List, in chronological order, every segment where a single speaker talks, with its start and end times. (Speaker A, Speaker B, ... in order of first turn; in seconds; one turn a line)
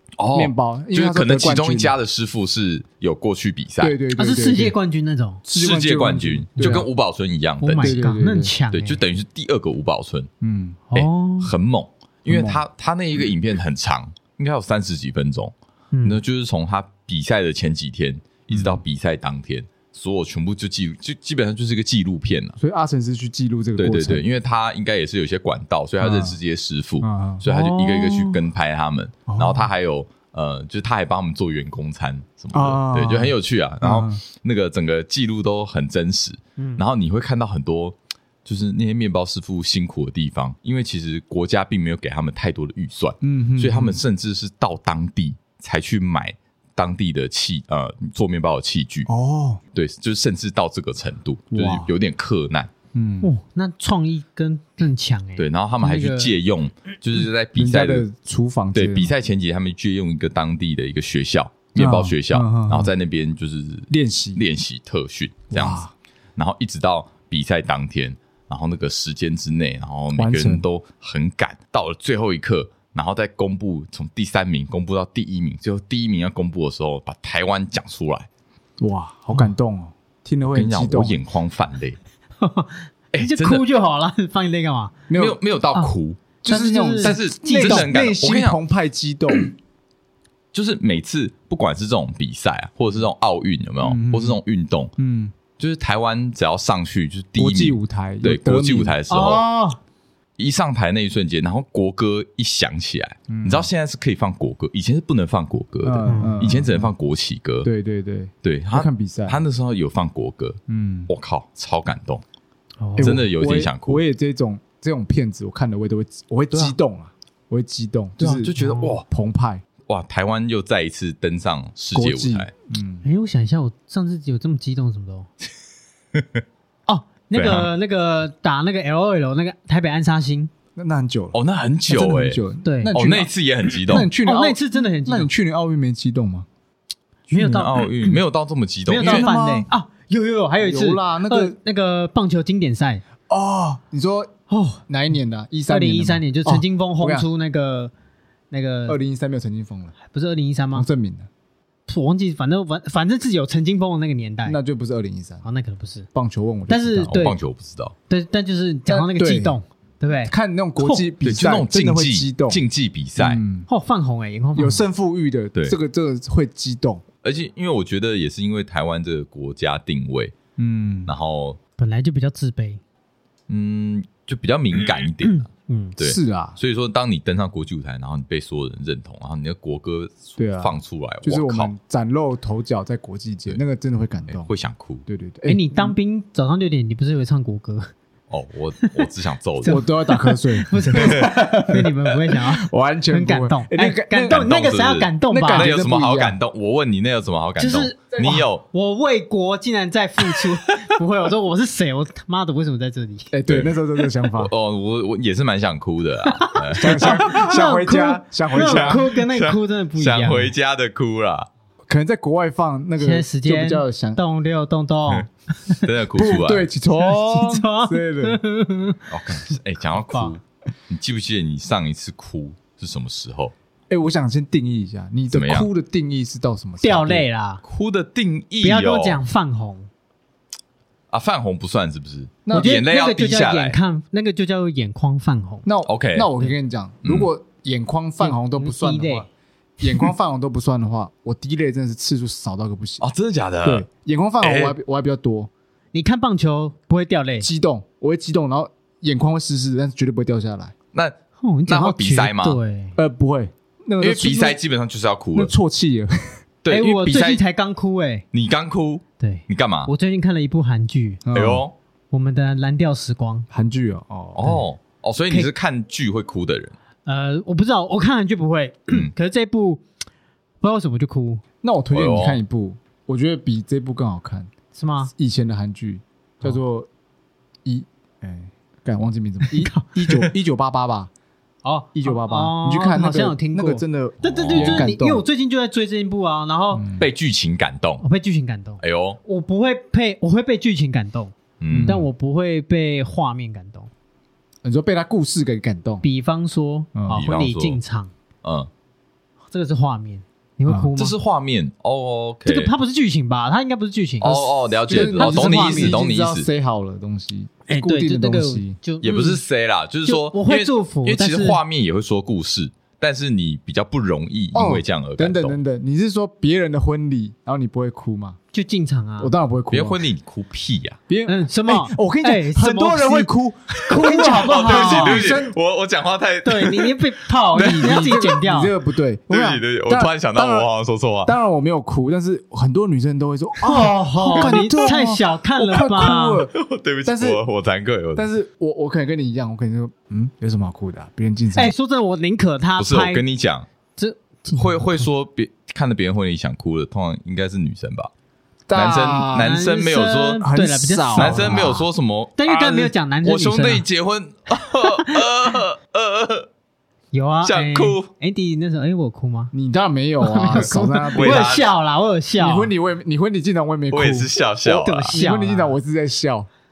Speaker A: 0.2-4.0
Speaker B: 0.3-1.9
Speaker B: 3.8-4.8
Speaker C: 4.2-5.4
Speaker B: 5.5-6.9
Speaker A: 5.5-8.0
Speaker C: 7.6-9.0
Speaker B: 7.8-8.5
Speaker A: 8.7-10.3
Speaker B: 10.4-10.8
Speaker C: 10.9-11.5
Speaker A: 10.9-22.6
Speaker B: 12.3-12.6
Speaker C: 15.9-16.2
Speaker B: 18.5-18.8
Speaker B: 22.6-24.2
Speaker A: 23.8-49.1
Speaker B: 26.0-26.4
Speaker B: 27.0-28.1
Speaker C: 28.1-28.4
Speaker B: 29.3-29.7
Speaker B: 32.5-34.2
Speaker C: 36.6-36.8
Speaker B: 43.2-44.0
Speaker B: 49.1-49.6
Speaker A: 49.7-52.7
Speaker B: 51.5-51.9
Speaker B: 52.9-53.3
Speaker C: 53.2-56.3
Speaker A: 55.4-58.0
Speaker B: 57.5-59.1
Speaker A: 58.7-65.8
Speaker B: 61.8-62.9
Speaker B: 63.9-64.4
Speaker B: 65.5-65.9
Speaker A: 66.4-78.3
Speaker B: 70.1-70.6
Speaker B: 78.8-81.2
Speaker A: 80.5-82.0
Speaker C: 82.4-85.0
Speaker A: 83.1-83.6
Speaker B: 85.1-85.4
Speaker A: 85.1-86.2
Speaker C: 86.4-87.8
Speaker B: 86.4-89.5
Speaker A: 87.0-88.6
Speaker A: 90.5-94.9
Speaker B: 93.8-94.4
Speaker B: 95.0-95.3
Speaker A: 95.6-99.4
Speaker B: 97.3-98.9
Speaker C: 99.1-99.8
Speaker A: 100.4-107.7
Speaker B: 103.3-103.7
Speaker B: 105.8-106.9
Speaker C: 106.1-106.5
Speaker B: 107.6-109.4
Speaker A: 108.4-112.2
Speaker B: 110.7-111.1
Speaker C: 112.8-113.2
Speaker B: 113.0-119.6
Speaker A: 113.0-114.0
Speaker A: 118.2-119.0
Speaker C: 118.6-119.0
Speaker A: 119.8-122.5
Speaker B: 121.9-123.0
Speaker C: 123.0-125.3
Speaker A: 126.1-126.4
Speaker C: 126.9-130.5
Speaker A: 127.3-127.7
Speaker B: 130.7-133.3
Speaker A: 131.3-134.1
Speaker C: 132.6-132.9
Speaker B: 133.8-136.5
Speaker C: 134.2-135.3
Speaker C: 137.3-138.1
Speaker B: 137.3-138.1
Speaker A: 137.4-139.3
Speaker C: 138.8-143.0
Speaker B: 139.0-139.7
Speaker B: 140.6-141.5
Speaker B: 143.3-144.3
Speaker C: 144.5-144.8
Speaker B: 144.9-147.3
Speaker C: 145.7-147.9
Speaker C: 148.5-149.0
Speaker B: 148.9-149.9
Speaker C: 150.0-150.9
Speaker B: 150.7-151.3
Speaker C: 151.9-154.6
Speaker B: 154.4-155.4
Speaker C: 155.4-156.1
Speaker B: 156.1-157.1
Speaker C: 156.7-157.4
Speaker A: 157.1-157.9
Speaker C: 158.1-161.1
Speaker B: 158.9-159.6
Speaker B: 160.2-162.6
Speaker A: 161.2-163.4
Speaker B: 163.2-163.7
Speaker C: 163.7-164.8
Speaker B: 164.6-167.0
Speaker A: 167.2-170.3
Speaker B: 170.6-171.1
Speaker A: 171.1-171.6
Speaker C: 171.8-172.8
Speaker A: 173.5-175.5
Speaker C: 175.2-176.0
Speaker A: 176.0-181.7
Speaker B: 176.0-176.6
Speaker B: 180.4-184.5
Speaker A: 184.3-185.0
Speaker B: 185.1-185.9
Speaker C: 185.4-187.9
Speaker A: 188.3-189.8
Speaker C: 189.6-195.7
Speaker B: 189.7-191.9
Speaker A: 190.9-191.3
Speaker B: 192.6-194.4
Speaker A: 194.3-198.6
Speaker B: 195.3-196.4
Speaker C: 197.6-203.3
Speaker A: 200.3-200.5
Speaker B: 203.3-204.5
Speaker A: 203.5-207.4
Speaker C: 206.3-210.5
Speaker B: 206.7-209.1
Speaker A: 208.5-211.5
Speaker B: 211.9-214.2
Speaker C: 213.0-215.8
Speaker A: 215.7-216.7
Speaker B: 216.1-218.4
Speaker C: 216.9-219.1
Speaker A: 219.1-223.5
Speaker C: 220.1-220.3
Speaker B: 223.9-227.2
Speaker A: 225.3-225.7
Speaker C: 226.8-227.6
Speaker A: 227.6-229.2
Speaker C: 228.6-229.9
Speaker A: 231.1-233.8
Speaker B: 232.4-232.8
Speaker C: 232.5-235.7
Speaker B: 235.7-239.3
Speaker A: 235.8-236.3
Speaker A: 237.0-237.3
Speaker C: 238.2-239.3
Speaker B: 239.8-243.1
Speaker A: 243.0-243.8
Speaker B: 243.6-245.5
Speaker A: 244.4-244.8
Speaker C: 245.9-247.5
Speaker B: 247.4-250.7
Speaker C: 251.4-253.0
Speaker A: 251.7-252.6
Speaker B: 252.9-254.6
Speaker A: 254.0-255.5
Speaker B: 255.3-256.4
Speaker A: 256.6-257.4
Speaker C: 256.7-258.2
Speaker A: 258.3-259.9
Speaker C: 259.2-261.2
Speaker B: 261.2-261.6
Speaker A: 261.3-261.7
Speaker C: 262.1-263.5
Speaker B: 263.5-264.6
Speaker A: 264.4-266.7
Speaker C: 267.1-269.8
Speaker C: 270.6-271.4
Speaker B: 271.6-274.5
Speaker A: 271.9-272.4
Speaker C: 274.7-275.1
Speaker B: 275.1-276.9
Speaker B: 277.6-281.1
Speaker C: 279.5-280.2
Speaker C: 281.6-286.8
Speaker B: 281.9-285.2
Speaker A: 284.2-284.9
Speaker B: 286.7-287.1
Speaker A: 287.0-288.0
Speaker C: 288.0-293.9
Speaker A: 288.8-289.2
Speaker A: 291.6-292.0
Speaker B: 291.7-292.1
Speaker B: 294.6-296.0
Speaker C: 296.0-298.1
Speaker B: 296.9-297.2
Speaker A: 297.1-297.8
Speaker A: 298.4-298.7
Speaker C: 299.5-301.1
Speaker A: 301.0-302.7
Speaker C: 302.4-306.0
Speaker A: 304.2-306.5
Speaker B: 304.2-308.8
Speaker C: 307.7-309.4
Speaker A: 309.0-315.6
Speaker C: 310.1-311.6
Speaker B: 314.5-318.4
Speaker C: 318.5-319.3
Speaker B: 319.2-320.0
Speaker A: 319.7-321.0
Speaker B: 321.1-325.6
Speaker C: 321.2-323.3
Speaker C: 323.8-325.3
Speaker A: 323.9-327.0
Speaker C: 326.4-328.7
Speaker B: 327.5-330.7
Speaker A: 329.3-331.4
Speaker B: 331.2-337.4
Speaker C: 333.6-336.4
Speaker A: 334.4-334.9
Speaker A: 336.5-338.3
Speaker B: 338.1-341.7
Speaker C: 341.5-343.2
Speaker A: 342.8-343.7
Speaker C: 343.9-345.0
Speaker A: 344.5-348.1
Speaker B: 348.7-349.5
Speaker A: 348.7-350.4
Speaker C: 349.4-351.8
Speaker B: 350.4-351.8
Speaker A: 351.1-356.5
Speaker C: 352.4-353.8
Speaker C: 354.8-355.3
Speaker C: 357.1-359.5
Speaker A: 357.4-358.1
Speaker B: 359.5-361.5
Speaker C: 360.2-362.7
Speaker A: 360.5-361.7
Speaker B: 362.4-364.3
Speaker A: 363.9-365.2
Speaker C: 364.6-365.8
Speaker B: 365.1-366.5